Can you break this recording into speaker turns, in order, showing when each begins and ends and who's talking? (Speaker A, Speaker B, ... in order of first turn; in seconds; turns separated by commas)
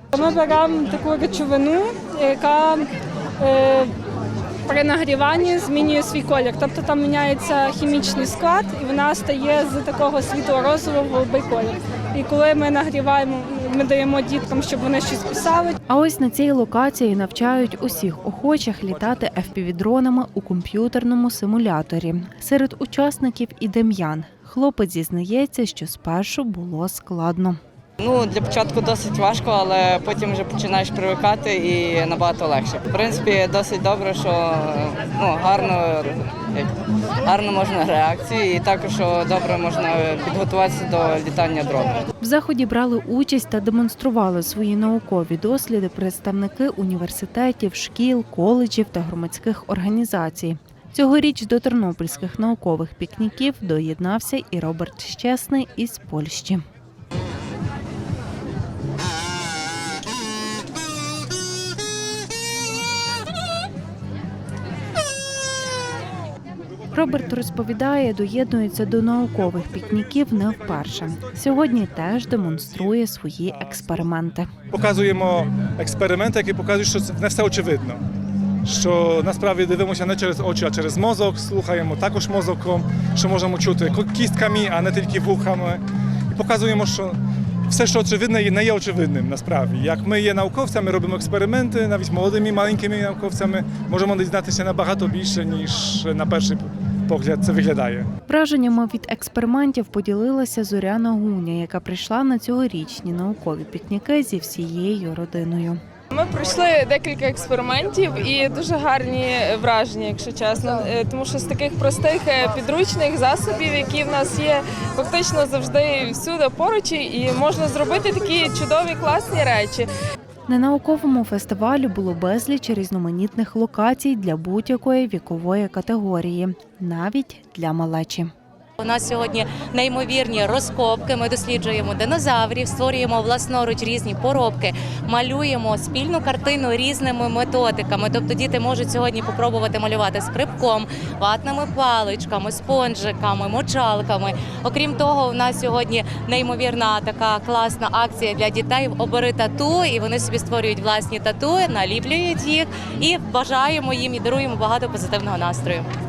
Speaker A: 0.1-2.9, Speaker A: 3.4-3.9, Speaker A: 4.7-15.8, Speaker B: 15.9-27.6, Speaker C: 28.0-42.1, Speaker B: 42.2-56.6, Speaker B: 66.9-74.5, Speaker D: 74.7-78.0, Speaker D: 78.7-87.2, Speaker D: 87.7-98.1, Speaker B: 98.3-105.8, Speaker E: 106.1-119.9, Speaker B: 120.5-128.3, Speaker F: 128.8-155.9